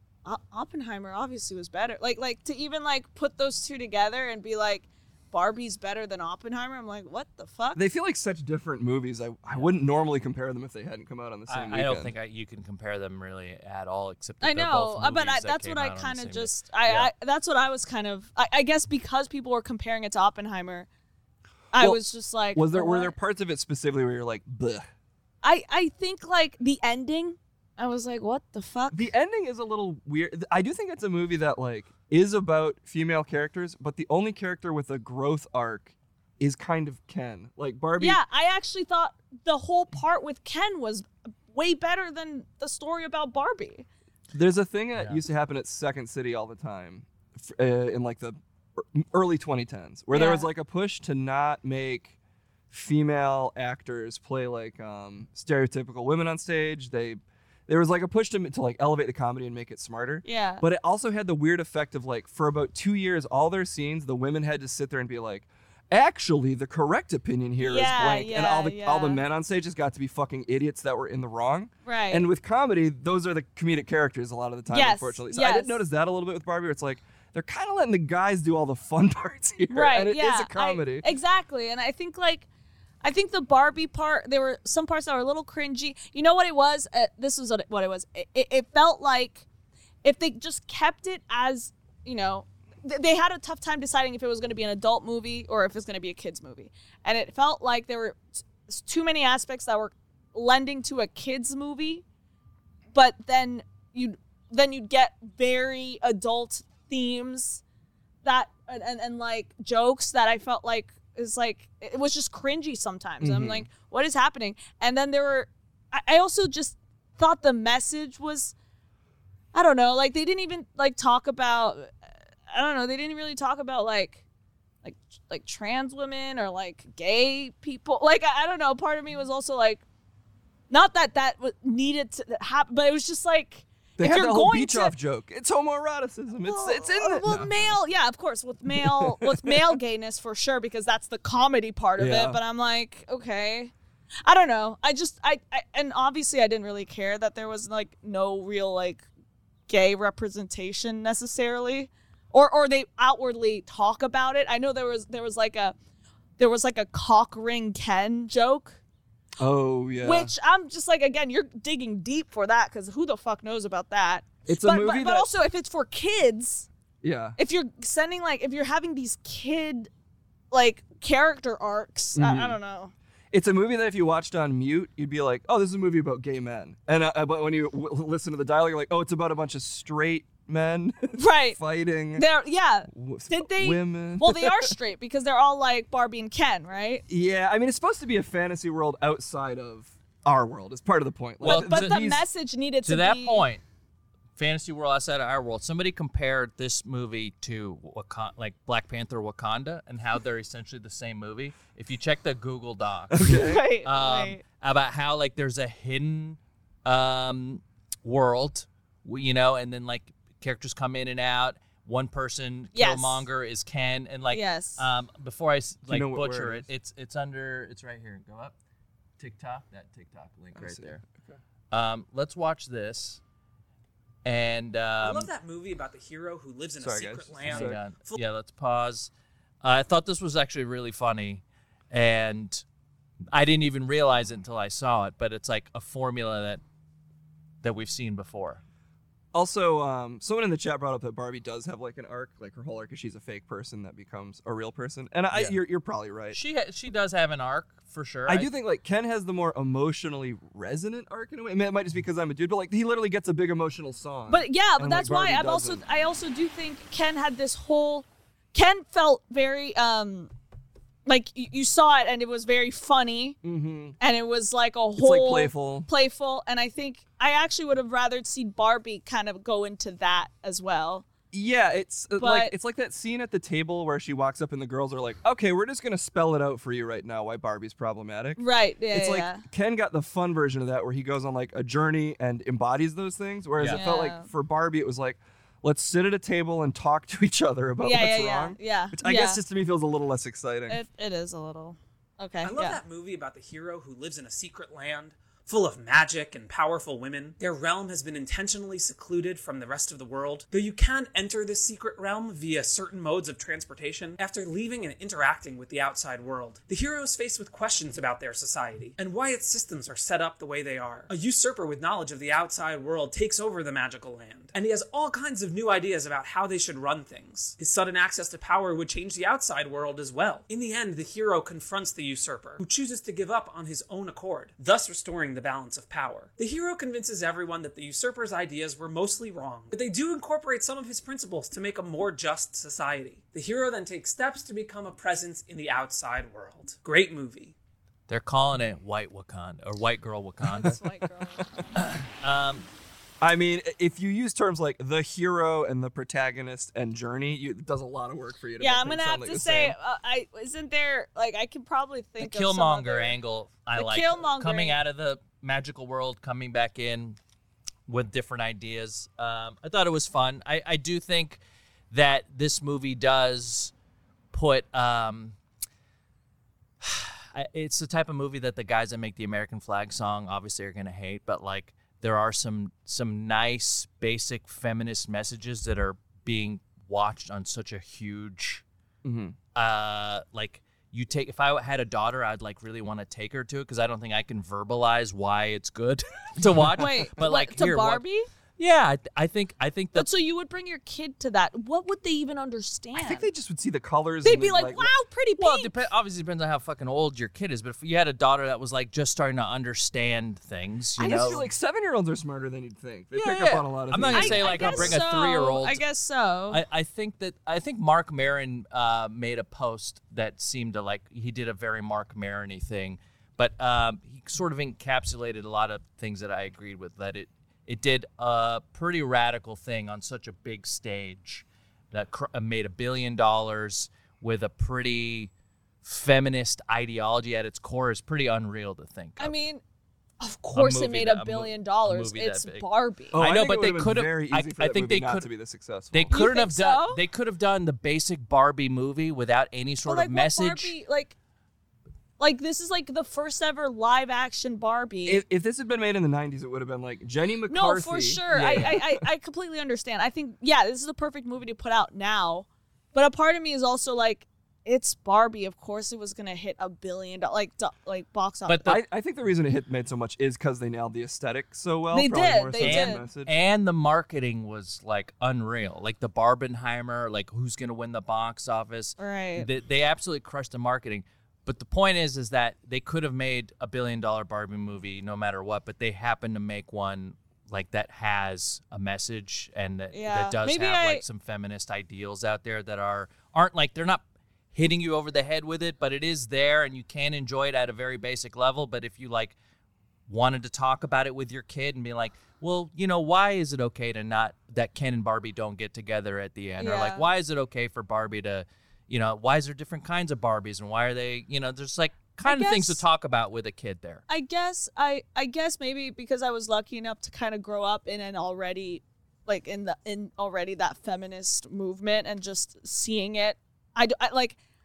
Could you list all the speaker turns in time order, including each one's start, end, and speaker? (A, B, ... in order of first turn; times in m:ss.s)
0:00.2-0:07.8 A
0:07.7-0:12.1 B
0:11.5-0:17.1 C
0:14.4-0:20.9 A
0:21.7-0:23.1 A
0:22.5-0:24.8 B
0:25.4-0:29.1 A
0:28.9-0:38.2 B
0:38.0-0:43.8 A
0:44.3-0:52.2 B
0:50.1-0:50.5 A
0:52.7-1:21.1 B
1:00.2-1:00.6 A
1:07.6-1:09.2 A
1:11.8-1:12.3 A
1:14.7-1:15.8 A
1:19.7-1:22.5 A
1:23.0-1:29.4 A
1:30.0-1:42.0 A
1:42.9-1:47.6 A
1:48.2-1:58.5 A
1:53.2-1:53.7 B
1:59.5-2:01.9 A
2:02.5-2:04.2 A
2:04.8-2:09.8 A
2:10.7-2:14.9 A
2:14.0-2:17.7 B
2:16.4-2:23.7 A
2:18.7-2:19.8 B
2:22.0-2:22.4 B
2:24.2-2:29.0 A
2:29.7-2:35.7 A
2:36.4-2:38.8 A
2:39.4-2:40.3 B
2:40.0-2:46.7 A
2:44.5-2:45.3 B
2:47.0-2:47.4 B
2:47.4-2:49.9 A
2:50.5-2:52.9 A
2:52.1-2:52.6 B
2:53.3-3:02.2 B
3:01.2-3:01.6 A
3:02.1-3:07.0 A
3:02.9-3:04.7 B
3:07.1-3:12.2 B
3:11.4-3:12.0 C
3:11.4-3:13.4 A
3:12.8-3:13.6 C
3:14.4-3:38.5 C
3:23.1-3:23.6 B
3:23.3-3:24.4 A
3:32.7-3:33.2 A
3:34.3-3:34.8 A
3:35.9-3:36.7 B
3:39.2-3:41.0 C
3:40.5-3:41.4 B
3:41.7-3:43.2 C
3:44.2-3:45.3 C
3:45.0-3:48.2 D
3:46.8-3:47.8 B
3:47.4-3:49.1 C
3:49.6-3:52.6 C
3:53.3-3:56.6 C
3:57.6-3:58.6 C
3:59.3-4:06.4 B
4:05.3-4:05.6 C
4:06.3-4:08.5 C
4:08.3-4:15.8 B
4:14.3-4:20.3 A
4:21.0-4:23.4 A
4:23.4-4:24.0 B
4:24.0-4:31.0 A
4:25.0-4:25.9 B
4:31.3-4:50.8 B
4:32.2-4:32.5 A
4:38.4-4:39.4 A
4:43.6-4:43.8 C
4:43.7-4:44.3 A
4:47.8-4:49.4 A
4:50.7-4:52.8 A
4:52.4-5:37.5 D
5:38.1-5:40.8 C
5:40.5-5:41.8 A
5:41.7-5:42.7 C
5:43.2-5:49.8 B
5:48.6-5:53.2 A
5:52.2-5:57.2 C
5:53.7-5:54.8 A
5:57.9-6:03.7 C
6:04.3-6:05.4 C
6:06.8-6:18.6 C
6:19.0-6:19.4 B
6:19.5-6:28.0 C
6:26.7-6:28.3 A
6:28.6-6:30.1 C
6:29.9-6:33.3 A
6:32.9-6:34.9 B
6:34.2-6:35.8 A
6:35.4-6:41.4 C
6:41.0-6:45.0 B
6:41.0-6:41.4 A
6:43.1-6:45.8 C
6:44.1-6:46.6 A
6:46.5-7:05.3 C
7:05.8-7:09.3 C
7:09.2-7:09.6 A
7:10.2-7:13.2 A
7:10.5-7:15.3 C
7:13.1-7:16.2 B
7:15.9-7:20.7 C
7:16.1-7:17.0 A
7:19.8-7:21.1 A
7:22.2-7:25.2 A
7:25.0-7:29.0 B
7:27.5-7:38.7 A
7:28.3-7:28.8 C
7:38.4-7:38.8 C
7:38.6-7:43.3 B
7:41.9-7:43.0 A
7:42.6-8:09.3 C
7:49.0-7:49.5 A
7:59.9-8:01.0 A
8:10.1-8:24.0 C
8:16.6-8:17.1 A
8:22.2-8:22.8 A
8:24.1-8:34.4 A